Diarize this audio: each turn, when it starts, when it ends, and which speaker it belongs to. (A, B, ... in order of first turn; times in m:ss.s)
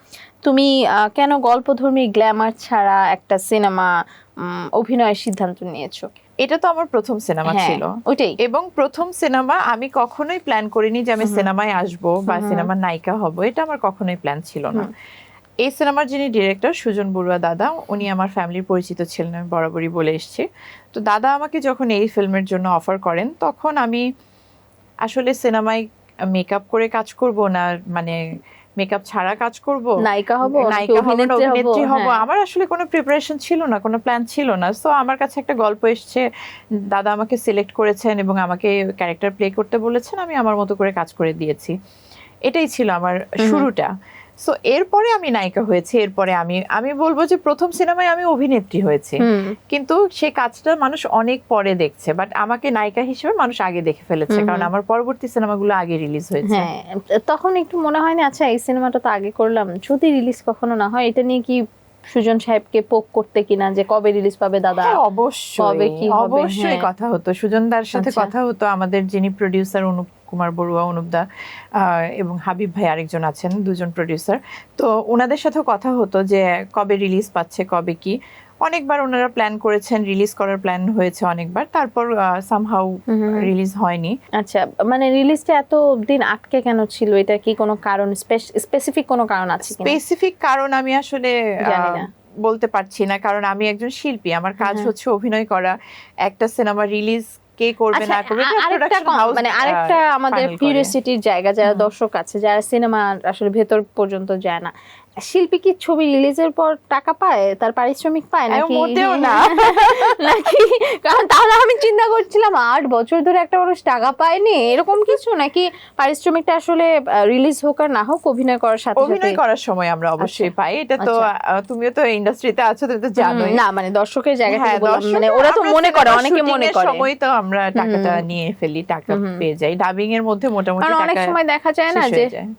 0:00.4-0:03.9 A
0:04.5-0:06.1 A
0:06.4-0:07.8 B
0:07.5-0:08.4 A
0:08.4-0:14.9 B
0:12.3-0:12.7 A
0:15.7-0:20.4 B
0:21.0-0:24.0 B
0:25.1-0:28.2 B
0:28.8-0:29.9 B
0:30.0-0:32.2 A
0:30.5-0:36.2 B
0:36.9-0:41.7 B
0:42.5-0:43.9 B
0:44.5-0:56.7 B
0:49.2-0:49.5 A
0:54.3-0:54.7 A
0:56.5-1:01.6 A
1:02.2-1:05.0 A
1:04.9-1:11.2 B
1:05.6-1:06.8 A
1:08.0-1:08.3 A
1:12.2-1:18.1 B
1:18.7-1:24.1 B
1:23.1-1:23.4 A
1:24.4-1:30.0 A
1:29.7-1:35.7 B
1:31.7-1:32.1 A
1:34.6-1:34.9 A
1:36.3-1:40.9 B
1:38.0-1:44.7 A
1:45.3-1:59.4 A
1:48.5-1:50.1 B
1:59.0-2:03.6 B
2:00.2-2:00.5 A
2:03.2-2:07.0 A
2:04.5-2:11.4 B
2:07.8-2:08.2 A
2:09.1-2:09.4 A
2:10.8-2:12.3 A
2:11.9-2:12.4 B